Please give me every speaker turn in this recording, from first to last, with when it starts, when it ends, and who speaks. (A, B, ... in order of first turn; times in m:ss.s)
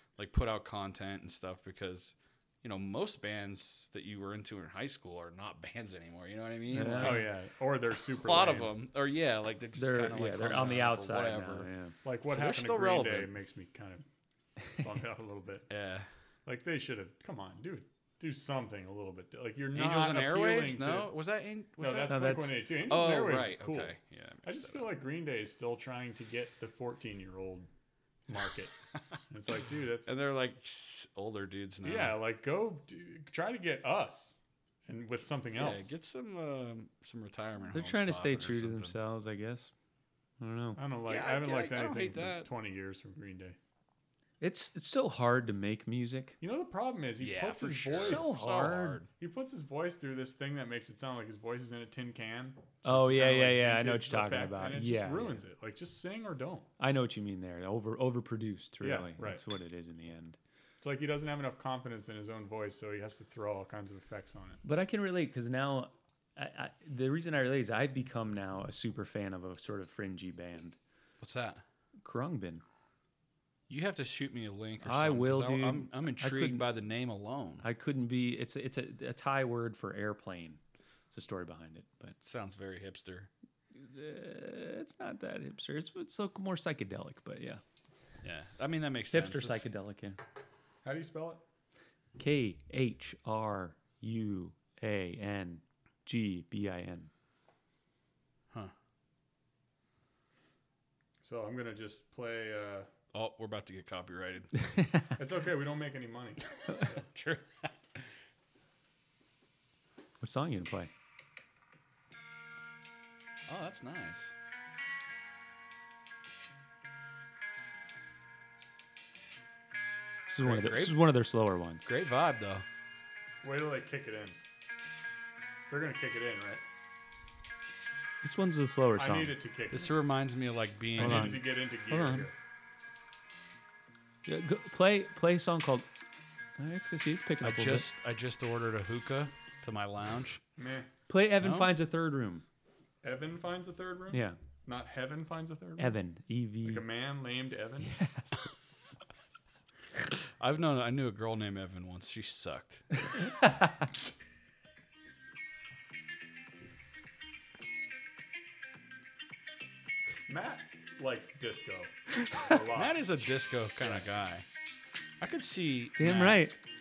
0:00.2-0:07.3 A
0:06.7-0:07.3 B
0:07.0-0:08.7 C
0:08.1-0:11.7 A
0:09.8-0:11.9 B
0:12.0-0:14.0 C
0:12.3-0:13.3 A
0:14.8-0:15.7 C
0:15.7-0:16.1 A
0:16.4-0:21.1 C
0:19.7-0:22.3 A
0:21.8-0:27.7 C
0:22.1-0:22.7 B
0:22.8-0:24.9 A
0:28.3-0:28.7 C
0:29.3-0:30.1 C
0:30.0-0:32.1 A
0:31.8-0:35.9 C
0:35.5-0:39.0 A
0:37.7-0:39.7 B
0:40.4-0:40.8 B
0:40.8-0:43.6 C
0:41.0-0:42.5 A
0:44.4-0:46.4 B
0:46.4-0:48.3 C
0:47.2-0:49.1 A
0:48.0-0:49.0 B
0:49.2-0:56.7 C
0:52.8-0:55.4 B
0:56.8-1:00.4 B
0:58.8-0:59.4 C
1:00.8-1:04.6 C
1:04.6-1:10.8 B
1:11.2-1:11.6 A
1:12.0-1:12.6 B
1:13.7-1:17.6 A
1:14.8-1:16.6 B
1:17.6-1:22.2 B
1:22.2-1:23.3 A
1:23.7-1:27.6 B
1:28.2-1:29.6 A
1:29.1-1:30.2 B
1:30.8-1:31.4 C
1:32.2-1:37.1 B
1:41.2-1:42.9 C
1:43.1-1:44.6 A
1:44.7-1:45.0 B
1:45.2-1:46.9 C
1:46.6-1:48.1 A
1:50.2-1:50.9 B
1:53.5-1:54.3 A
2:00.3-2:01.8 B
2:00.4-2:01.0 A
2:01.8-2:02.6 A
2:03.4-2:04.4 C
2:05.7-2:06.6 C
2:08.2-2:09.3 B
2:09.0-2:10.0 C
2:09.7-2:11.4 A
2:11.0-2:12.3 C
2:11.0-2:12.3 B
2:14.2-2:15.9 B
2:16.6-2:17.9 B
2:17.4-2:20.4 A
2:20.6-2:20.9 C
2:21.1-2:22.4 B
2:21.4-2:21.7 A
2:23.0-2:26.0 C
2:24.1-2:24.4 B
2:25.8-2:26.8 B
2:26.6-2:28.0 C
2:27.8-2:28.4 B
2:30.1-2:32.8 A
2:33.4-2:33.7 B
2:40.3-2:43.0 C
2:42.7-2:44.4 A
2:45.2-2:46.4 A
2:46.0-2:46.6 B